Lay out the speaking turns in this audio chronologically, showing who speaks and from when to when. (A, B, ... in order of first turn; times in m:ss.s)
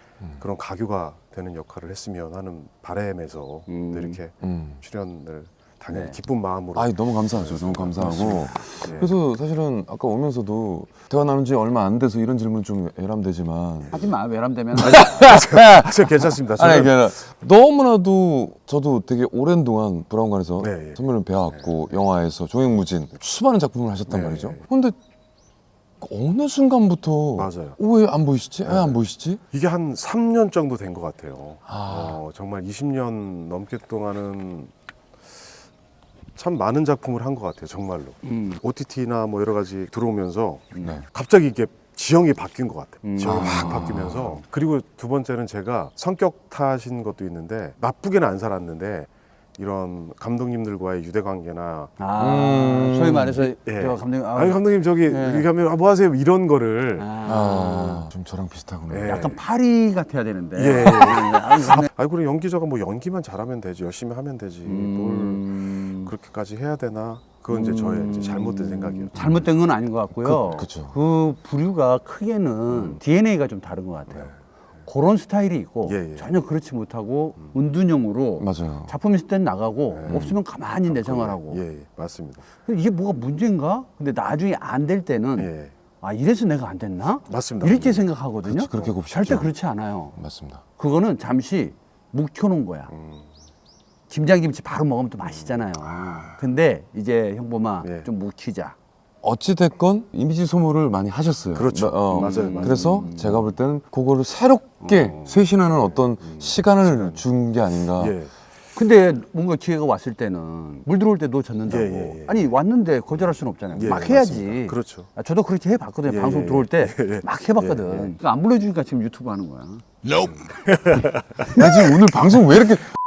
0:00.4-0:09.1 A
0:03.7-0:04.2 B
0:04.4-0:04.8 C
0:05.9-0:06.2 B
0:06.7-0:14.1 C
0:13.9-0:15.3 B
0:14.8-0:25.0 C
0:15.0-0:17.0 A
0:20.6-0:21.0 A
0:24.1-0:24.6 A
0:26.0-0:29.4 C
0:27.4-0:27.8 A
0:28.6-0:29.0 A
0:29.5-0:34.7 A
0:31.7-0:32.2 C
0:36.4-0:51.9 A
0:38.2-0:38.6 B
0:40.7-0:41.0 B
0:43.0-0:44.4 B
0:43.2-0:44.2 C
0:52.0-0:55.5 B
0:52.2-0:53.4 C
0:53.6-0:57.1 A
0:57.0-0:58.1 B
0:57.2-0:59.2 C
0:58.9-0:59.4 A
0:59.1-1:01.9 B
1:00.6-1:09.1 A
1:04.6-1:06.1 B
1:07.5-1:14.3 B
1:09.1-1:09.4 C
1:10.2-1:10.9 C
1:12.7-1:13.0 A
1:14.1-1:14.4 A
1:14.8-1:21.6 B
1:15.8-1:16.3 A
1:18.4-1:18.9 C
1:19.9-1:20.3 A
1:20.1-1:20.4 C
1:20.9-1:22.4 A
1:22.6-1:30.2 B
1:25.4-1:25.7 A
1:27.3-1:28.0 A
1:28.4-1:29.5 C
1:30.2-1:30.6 C
1:30.8-1:32.9 B
1:32.9-1:33.3 A
1:34.1-1:38.8 B
1:35.3-1:35.6 A
1:37.8-1:38.1 A
1:39.2-1:48.1 C
1:41.5-1:43.1 A
1:42.1-1:43.5 B
1:44.8-1:45.4 B
1:45.7-1:47.3 A
1:47.9-1:48.3 A
1:48.7-2:00.3 B
1:51.6-1:52.4 A
1:53.1-1:55.1 A
1:56.1-1:58.1 A
2:00.2-2:02.1 A
2:01.5-2:02.9 C